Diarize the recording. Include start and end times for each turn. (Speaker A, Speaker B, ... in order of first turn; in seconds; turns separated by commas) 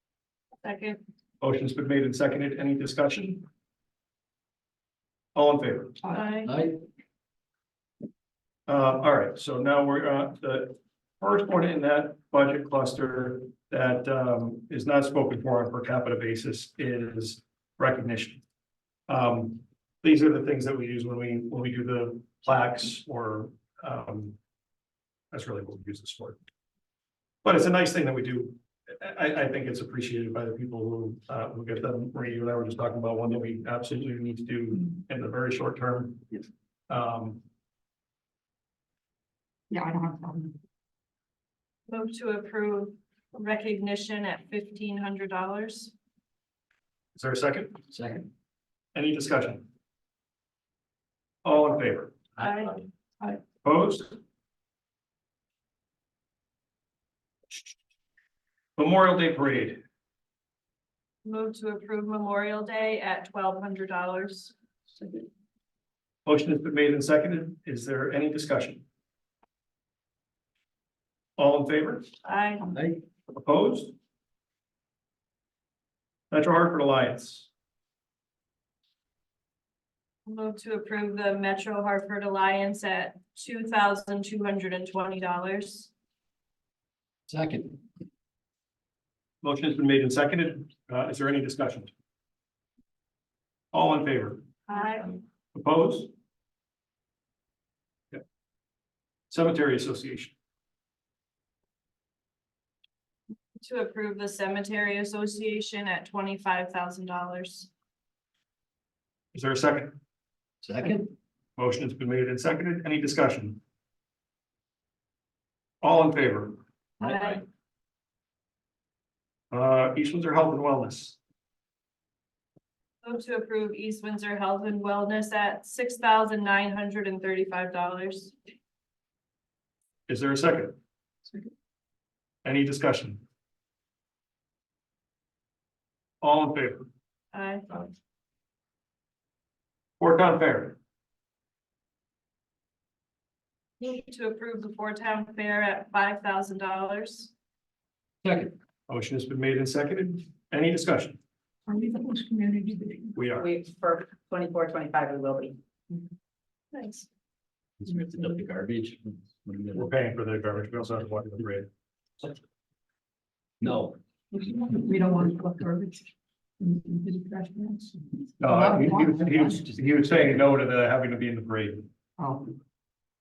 Speaker A: 0.6-1.0, Speaker B: 1.4-3.5, Speaker B: 5.3-6.0, Speaker A: 6.1-6.5, Speaker C: 6.4-6.8, Speaker B: 8.7-18.4, Speaker B: 19.1-24.4, Speaker B: 25.3-26.4, Speaker B: 27.4-36.4, Speaker B: 36.9-37.4, Speaker D: 39.7-40.6, Speaker A: 41.9-45.9, Speaker B: 47.1-47.8, Speaker C: 47.9-48.3, Speaker B: 49.0-49.7, Speaker B: 51.4-52.2, Speaker C: 52.4-52.8, Speaker A: 52.4-52.8, Speaker B: 53.6-54.2, Speaker B: 58.8-59.8, Speaker A: 61.2-64.5, Speaker B: 66.3-68.8, Speaker B: 71.4-72.1, Speaker A: 72.2-72.6, Speaker C: 72.7-73.0, Speaker B: 73.3-73.9, Speaker B: 76.3-77.5, Speaker A: 80.3-85.9, Speaker C: 87.3-87.8, Speaker B: 89.4-91.9, Speaker B: 93.7-94.4, Speaker A: 94.7-95.2, Speaker B: 95.5-96.1, Speaker B: 99.3-100.3, Speaker A: 103.6-107.7, Speaker B: 109.3-110.0, Speaker C: 110.6-111.1, Speaker B: 111.6-113.6, Speaker B: 115.8-116.6, Speaker C: 117.0-117.4, Speaker A: 117.0-117.4, Speaker B: 119.5-121.2, Speaker A: 123.0-128.3, Speaker B: 130.1-130.8, Speaker B: 132.4-133.2, Speaker B: 136.2-136.9, Speaker A: 137.3-137.8, Speaker B: 140.0-140.8, Speaker A: 143.8-147.3, Speaker C: 148.2-148.5, Speaker B: 148.9-151.2, Speaker D: 151.7-153.3, Speaker B: 153.2-153.5, Speaker E: 153.4-155.6, Speaker D: 154.6-155.2, Speaker A: 156.7-157.1, Speaker C: 157.8-159.9, Speaker B: 159.8-161.7, Speaker C: 163.6-164.0, Speaker D: 164.3-169.8, Speaker B: 168.4-171.9, Speaker D: 172.2-172.6